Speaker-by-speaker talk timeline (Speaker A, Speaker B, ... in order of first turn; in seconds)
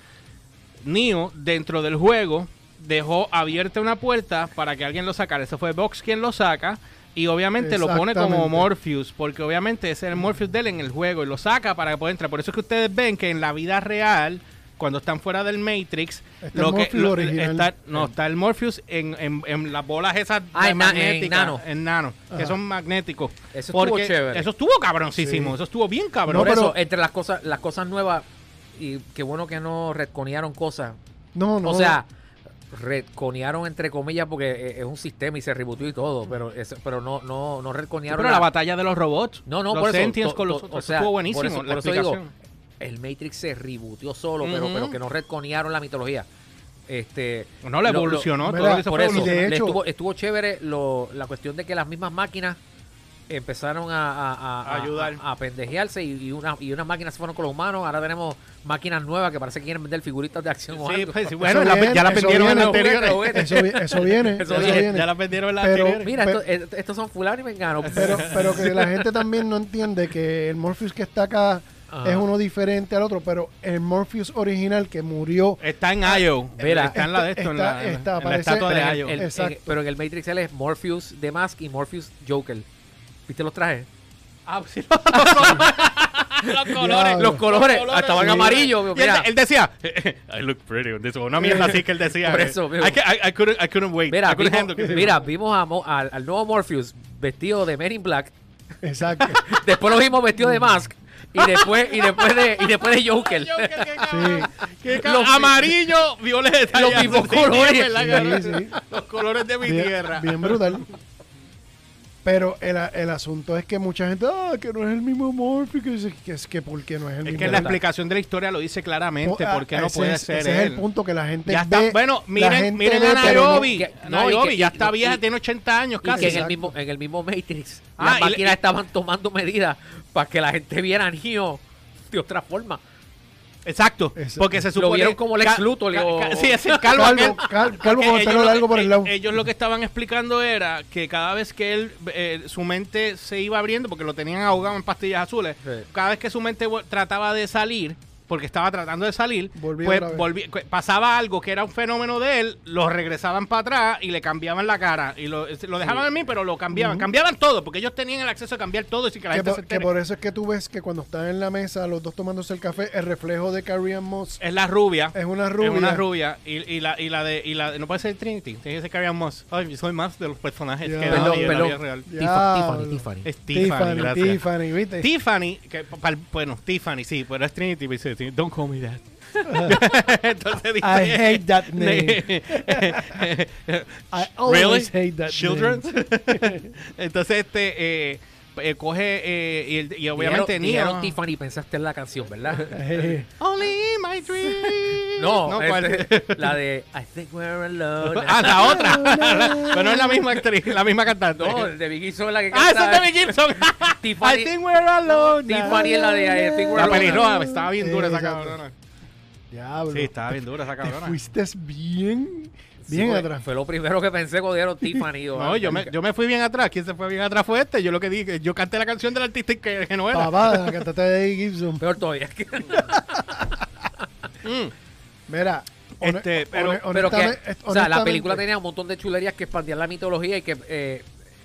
Speaker A: 0.8-26.7, 38.1-42.3, 44.4-45.0, 47.6-49.3, 54.6-55.2, 60.8-63.7, 64.4-66.1, 68.0-69.0, 75.6-79.2, 84.5-95.2, 101.4-110.8, 117.2-120.8, 121.5-126.4, 128.0-128.6, 133.6-159.9, 164.4-172.1, 173.2-174.4, 175.0-191.1, 193.4-196.6, 198.1-201.7, 202.5-206.0, 206.7-208.7, 209.9-211.2, 215.3-220.7, 224.4-224.7, 226.0-226.8
Speaker B: 7.6-8.7, 16.4-18.0, 22.3-22.6, 25.2-25.6, 26.3-26.7, 31.3-32.0, 48.4-49.8, 61.4-66.4, 67.9-76.2, 76.9-79.7, 86.7-87.4, 88.1-88.6, 91.4-91.8, 94.8-95.0, 98.8-99.4, 100.4-100.7, 104.1-104.5, 108.0-108.8, 109.6-110.8, 112.2-117.7, 119.2-123.7, 126.1-126.7, 134.2-134.5, 136.9-139.1, 149.6-150.3, 156.7-157.1, 159.3-164.4, 165.1-166.0, 170.8-175.1, 179.4-179.8, 180.8-183.3, 184.1-186.7, 192.7-193.3, 198.6-200.3, 205.6-208.6, 209.5-213.4, 220.1-221.8, 222.7-223.2, 225.3-228.4
Speaker C: 20.5-21.6, 23.5-24.5, 26.3-31.0, 31.6-32.1, 32.7-38.5, 39.5-42.2, 42.8-46.3, 46.9-52.6, 53.3-64.9, 66.0-68.7, 71.9-72.2, 76.6-77.0, 78.6-82.7, 83.3-83.9, 85.1-89.3, 91.4-93.0, 94.1-98.3, 99.1-105.7, 106.7-108.5, 117.3-117.8, 123.1-125.2, 126.0-132.8, 134.7-137.5, 171.1-173.2, 190.1-192.8, 194.6-199.3, 201.4-204.5, 205.0-207.3, 212.8-215.9, 221.8-224.0, 226.9-231.1